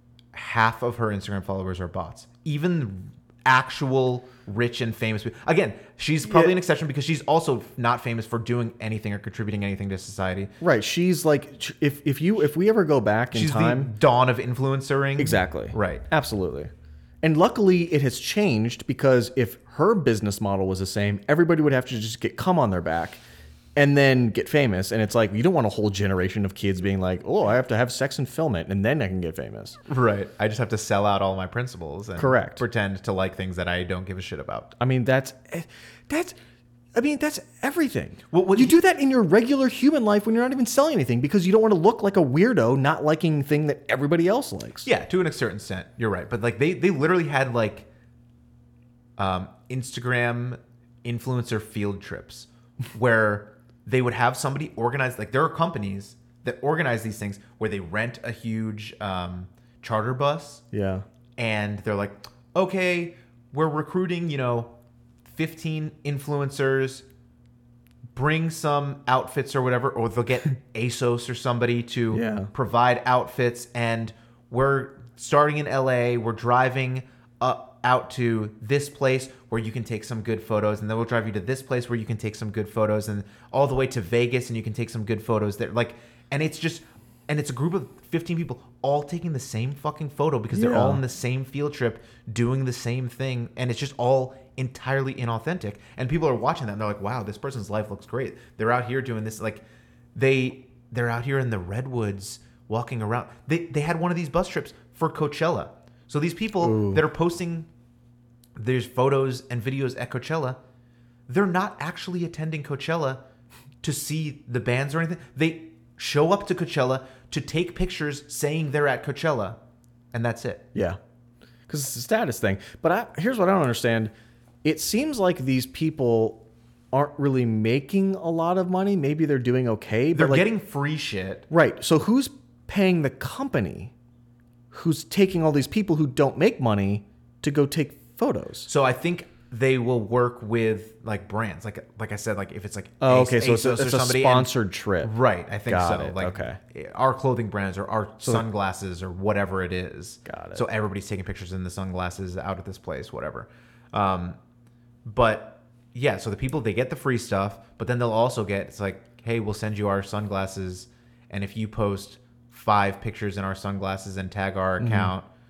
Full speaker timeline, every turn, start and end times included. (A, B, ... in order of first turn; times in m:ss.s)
0:00.3-0:10.5 A
0:06.2-0:06.6 B
0:10.6-0:13.9 B
0:13.3-0:16.0 A
0:15.2-0:16.7 B
0:17.2-0:23.2 B
0:23.8-0:29.8 B
0:29.9-0:34.7 A
0:32.2-0:32.6 B
0:34.8-0:36.3 B
0:36.9-0:44.9 B
0:38.3-0:38.8 A
0:44.8-0:47.9 A
0:49.2-1:00.6 A
1:00.7-1:01.0 B
1:01.4-1:07.0 A
1:08.1-1:47.7 A
1:12.1-1:12.5 B
1:30.5-1:31.0 B
1:46.6-1:47.0 B
1:48.6-1:50.6 A
1:51.3-1:53.2 A
1:53.8-1:59.6 A
2:00.1-2:00.7 A
2:01.7-2:04.1 B
2:04.6-2:10.5 B
2:10.1-2:11.5 A
2:11.5-2:13.9 B
2:14.7-2:18.7 B
2:18.6-2:34.4 A
2:23.0-2:25.1 B
2:25.7-2:26.6 B
2:30.2-2:30.6 B
2:35.0-2:45.3 A
2:44.8-2:45.1 B